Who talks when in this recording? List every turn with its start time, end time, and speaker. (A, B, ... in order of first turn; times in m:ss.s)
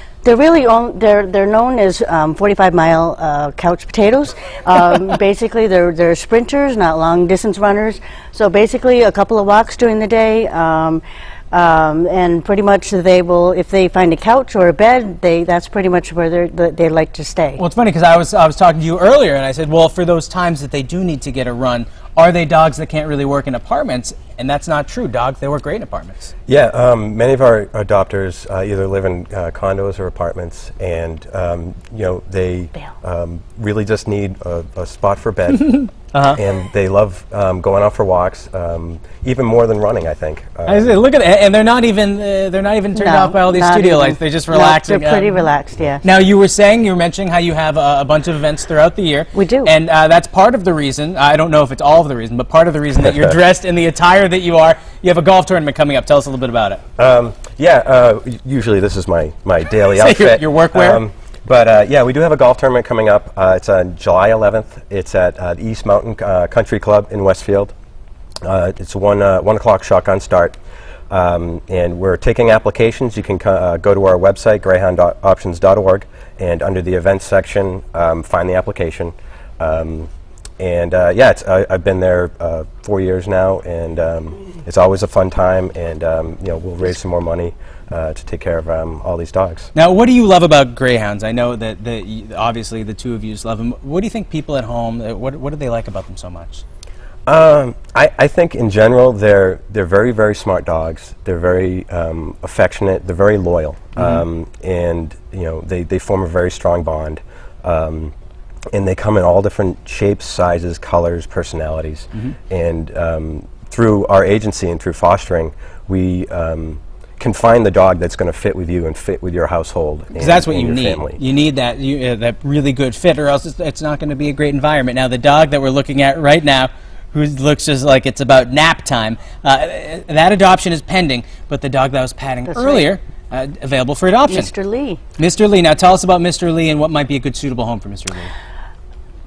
0:00.2-0:17.6 A
0:17.6-0:26.3 B
0:26.5-0:35.8 C
0:35.7-0:36.4 B
0:36.3-0:41.0 C
0:40.7-0:45.5 B
0:43.0-0:46.0 A
0:46.0-0:56.8 B
0:49.3-0:49.7 A
0:57.0-1:07.7 C
1:00.0-1:01.0 B
1:08.4-1:10.6 C
1:11.1-1:29.7 C
1:29.8-1:36.6 B
1:37.3-1:48.1 C
1:44.0-1:44.2 B
1:48.7-2:01.2 C
2:00.2-2:14.5 B
2:12.5-2:12.9 A
2:14.3-2:15.0 A
2:15.2-2:18.3 B